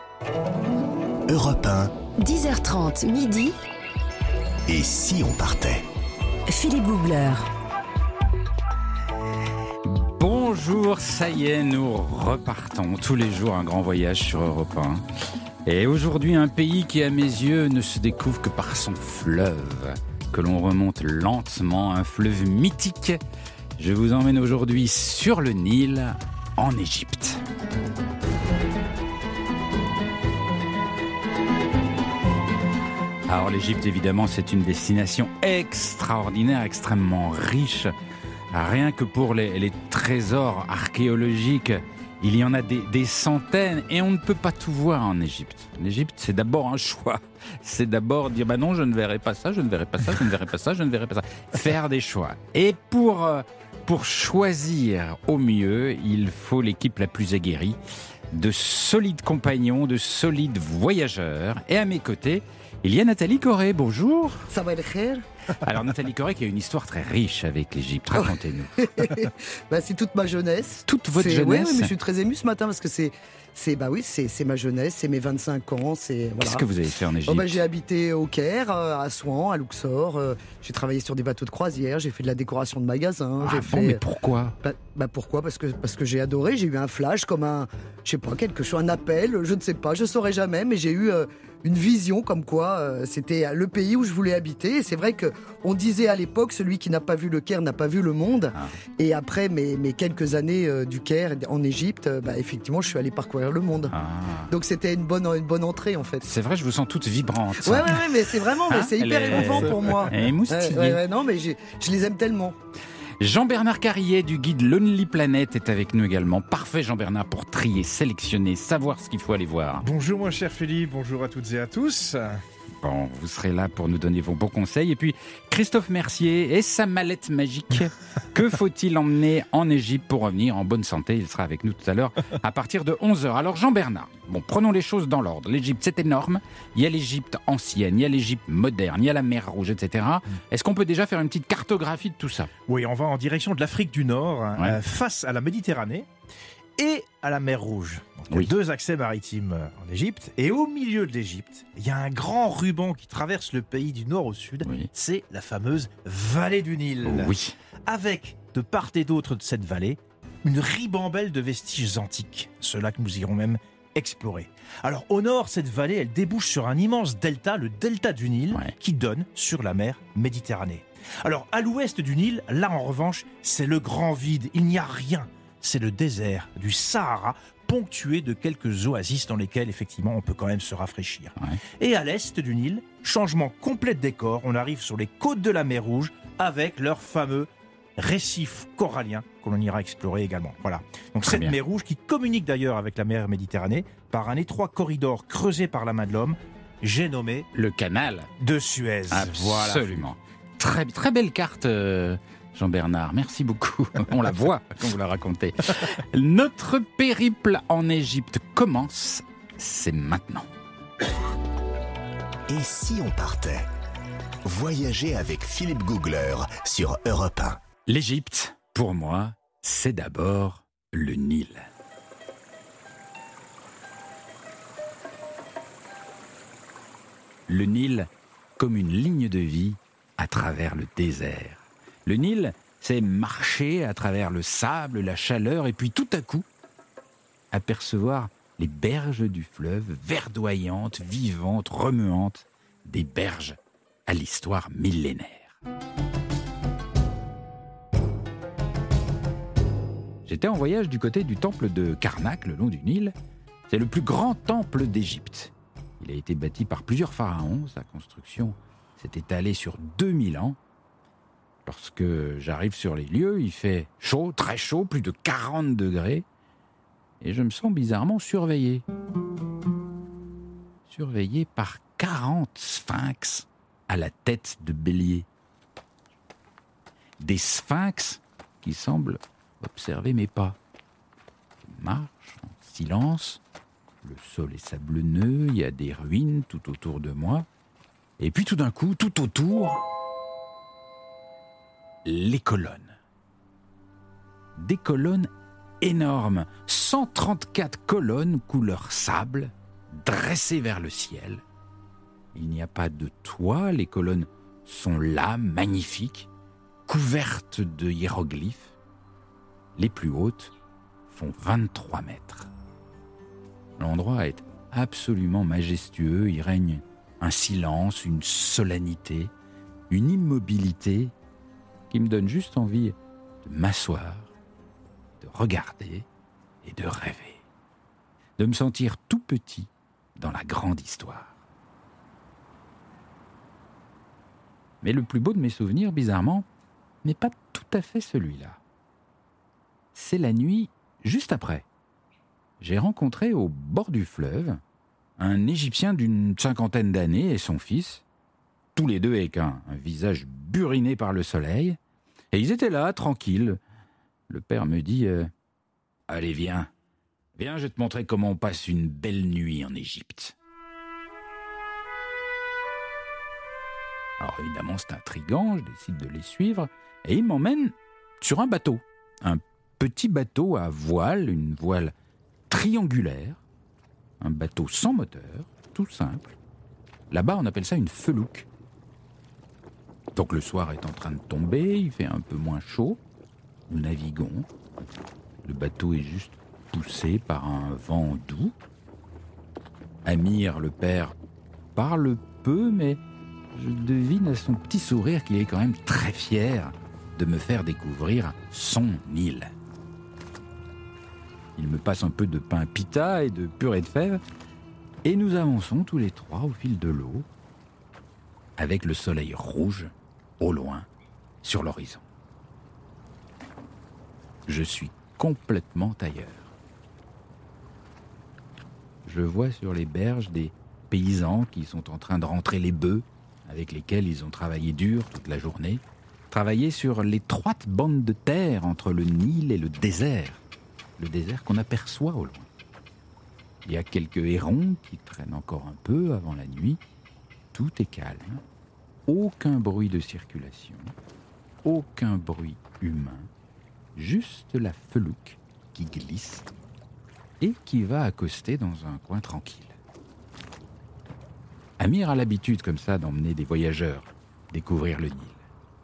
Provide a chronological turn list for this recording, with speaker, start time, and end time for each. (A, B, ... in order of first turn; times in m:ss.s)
0:01.3-0:01.9 A
0:02.2-0:03.6 B
0:04.7-0:05.9 A
0:06.5-0:07.5 B
0:09.8-0:15.0 C
0:15.6-0:23.2 C
0:23.8-0:27.4 C
0:33.3-0:37.9 C
0:38.5-0:57.8 C
0:58.3-1:04.5 C
1:04.5-1:05.2 D
1:05.6-1:08.8 C
1:08.1-1:16.7 D
1:10.9-1:11.9 C
1:16.4-1:17.6 C
1:17.2-1:24.0 D
1:23.4-1:24.6 C
1:24.6-1:43.9 D
1:43.9-1:44.5 C
1:44.5-1:46.2 D
1:46.2-1:51.0 C
1:47.6-1:52.6 D
1:49.5-1:50.1 E
1:53.2-1:59.8 C
1:59.8-2:02.4 E
2:02.8-2:22.5 C
2:22.7-2:26.1 E
2:26.8-2:37.4 E
2:34.6-2:34.9 C
2:37.0-2:37.5 C
2:37.9-3:17.5 E
3:11.2-3:11.6 C
3:17.5-3:18.3 C
3:18.4-3:20.1 E
3:19.1-3:30.5 C
3:32.5-3:33.7 A
3:34.4-3:37.6 A
3:37.9-3:41.7 C
3:47.5-3:56.4 C
3:57.5-4:05.5 C
4:10.2-4:13.1 C
4:13.7-4:20.6 C
4:21.6-4:26.2 C
4:27.2-4:28.8 C
4:30.9-4:35.3 C
4:37.2-4:40.6 C
4:41.6-4:43.4 C
4:44.0-4:47.4 C
4:48.2-4:49.8 C
4:52.0-4:53.0 C
4:54.6-4:55.3 C
4:55.8-5:01.4 C
5:02.3-5:06.3 C
5:06.9-5:08.7 C
5:09.8-5:10.5 C
5:11.1-5:12.5 C
5:13.8-5:19.3 C
5:19.9-5:21.1 C
5:21.9-5:24.3 C
5:25.2-5:26.0 C
5:26.6-5:27.4 C
5:28.4-5:31.3 C
5:34.8-5:36.5 C
5:37.0-5:38.6 C
5:39.9-5:41.6 C
5:42.6-5:44.6 C
5:45.2-5:48.0 C
5:48.8-5:51.8 C
5:52.3-5:53.6 C
5:54.3-5:55.3 C
5:56.1-5:56.7 C
5:57.4-6:00.3 C
6:04.2-6:11.9 C
6:12.5-6:13.4 C
6:14.2-6:16.2 C
6:17.1-6:18.5 C
6:20.1-6:23.0 C
6:23.7-6:24.5 C
6:25.4-6:28.5 C
6:30.0-6:31.1 C
6:31.8-6:33.0 C
6:33.5-6:39.5 C
6:41.6-6:44.2 C
6:45.0-6:47.3 C
6:48.6-6:50.9 C
6:51.4-6:52.0 C
6:54.5-6:56.5 C
6:59.0-7:10.4 C
7:11.0-7:12.5 C
7:13.6-7:16.8 C
7:17.5-7:18.4 C
7:19.1-7:20.9 C
7:21.6-7:23.3 C
7:24.0-7:26.4 C
7:27.4-7:29.7 C
7:31.8-7:35.4 C